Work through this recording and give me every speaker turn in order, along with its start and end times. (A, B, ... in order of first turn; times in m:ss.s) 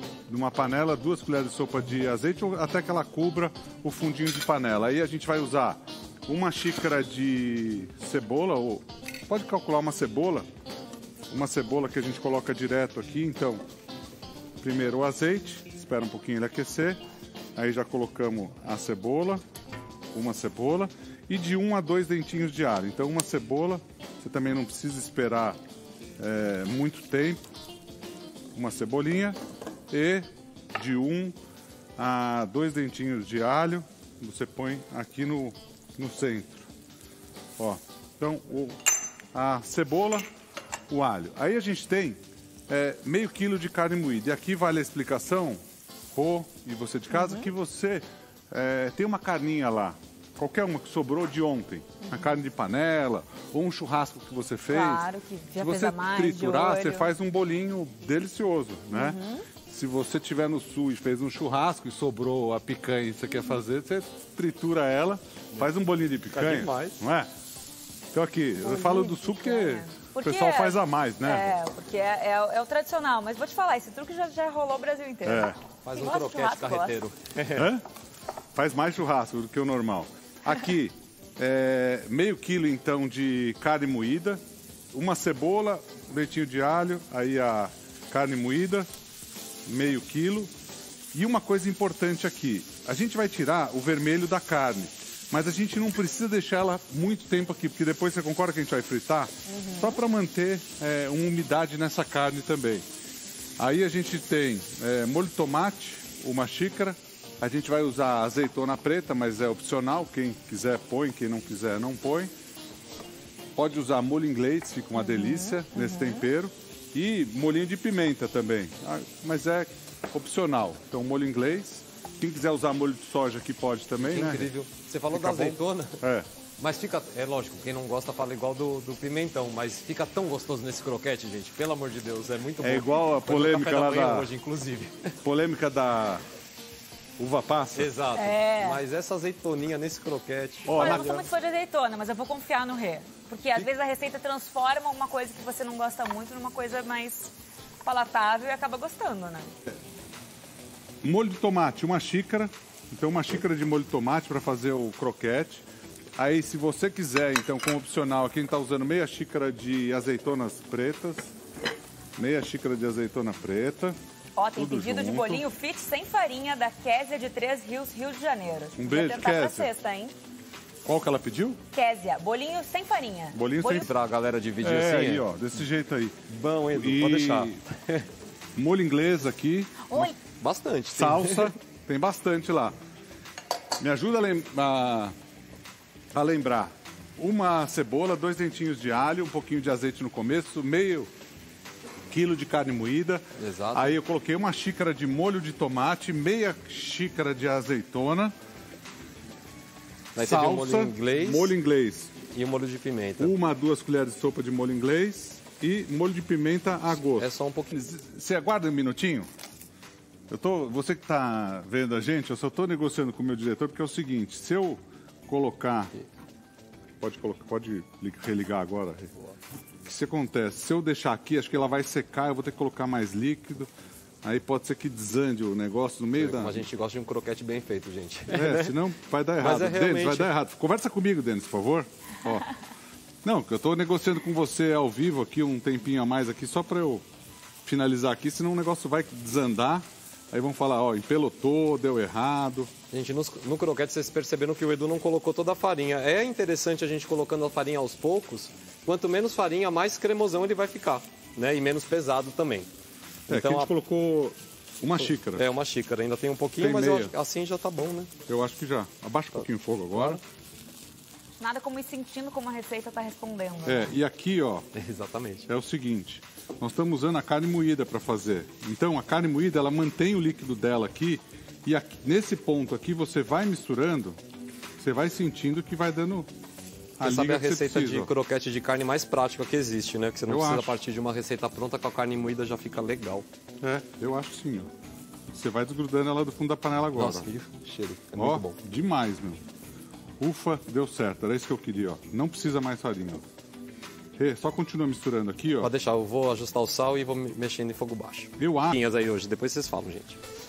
0:00.3-0:10.5 A
0:11.3-0:13.6 A
0:14.6-0:17.0 A
0:17.6-0:19.4 A
0:20.1-0:25.6 A
0:26.2-0:27.4 A
0:28.6-0:29.4 A
0:29.9-0:31.4 A
0:32.0-0:36.7 A
0:37.6-0:38.8 A
0:39.3-0:40.3 A
0:40.9-0:45.6 A
0:46.1-1:07.3 A
0:47.1-0:47.4 B
0:54.7-0:57.1 B
0:58.9-0:59.4 B
1:06.3-1:07.0 C
1:08.1-1:11.6 A
1:08.6-1:17.0 B
1:15.2-1:15.6 A
1:15.8-1:17.7 C
1:17.6-1:17.8 A
1:18.6-1:24.4 A
1:24.9-1:28.9 A
1:29.7-1:30.5 A
1:31.1-1:42.8 A
1:39.5-1:40.0 B
1:43.6-1:52.3 A
1:53.6-2:04.5 A
1:55.0-1:56.2 B
2:04.0-2:06.0 C
2:05.1-2:06.3 A
2:06.6-2:15.2 C
2:12.6-2:14.3 A
2:15.2-2:16.2 A
2:17.2-2:17.9 A
2:17.7-2:21.3 C
2:18.2-2:18.8 B
2:20.7-2:21.1 A
2:20.7-2:27.3 B
2:27.8-2:29.5 B
2:31.0-2:41.3 A
2:42.2-2:44.0 A
2:44.4-2:50.1 B
2:44.6-2:45.4 A
2:48.8-2:49.7 A
2:50.8-2:51.6 A
2:51.7-2:53.9 B
2:53.3-2:53.9 A
2:53.7-2:55.3 C
2:54.6-2:56.2 A
2:56.3-2:58.1 C
2:56.7-2:57.6 A
2:58.6-3:00.1 A
3:00.4-3:01.5 C
3:00.9-3:02.8 A
3:03.8-3:05.2 A
3:06.1-3:11.1 A
3:12.1-3:13.2 A
3:13.4-3:14.0 C
3:13.7-3:18.3 A
3:20.2-3:21.6 C
3:20.2-3:22.2 A
3:22.3-3:23.4 C
3:23.2-3:29.3 A
3:27.0-3:27.8 C
3:30.3-3:35.9 A
3:37.0-3:39.1 A
3:39.8-3:43.7 A
3:44.2-3:46.6 A
3:46.2-3:48.8 C
3:48.3-3:52.5 A
3:49.4-3:50.3 C
3:53.2-3:57.0 A
3:57.6-4:02.7 A
4:02.9-4:12.7 C
4:13.3-4:13.7 C
4:13.3-4:15.5 A
4:15.0-4:18.1 C
4:16.6-4:17.1 A
4:18.3-4:20.2 A
4:19.9-4:20.2 C
4:21.4-4:24.0 B
4:23.6-4:24.7 A
4:24.7-4:25.5 C
4:25.5-4:34.2 A
4:34.8-4:36.3 A
4:37.0-4:38.1 A
4:37.0-4:43.3 C
4:40.3-4:40.8 A
4:43.6-4:44.7 A
4:45.3-4:47.3 A
4:47.0-4:48.6 C
4:48.2-4:49.4 A
4:50.2-4:53.2 A
4:54.2-4:55.7 A
4:55.6-5:00.2 C
4:58.4-4:58.8 A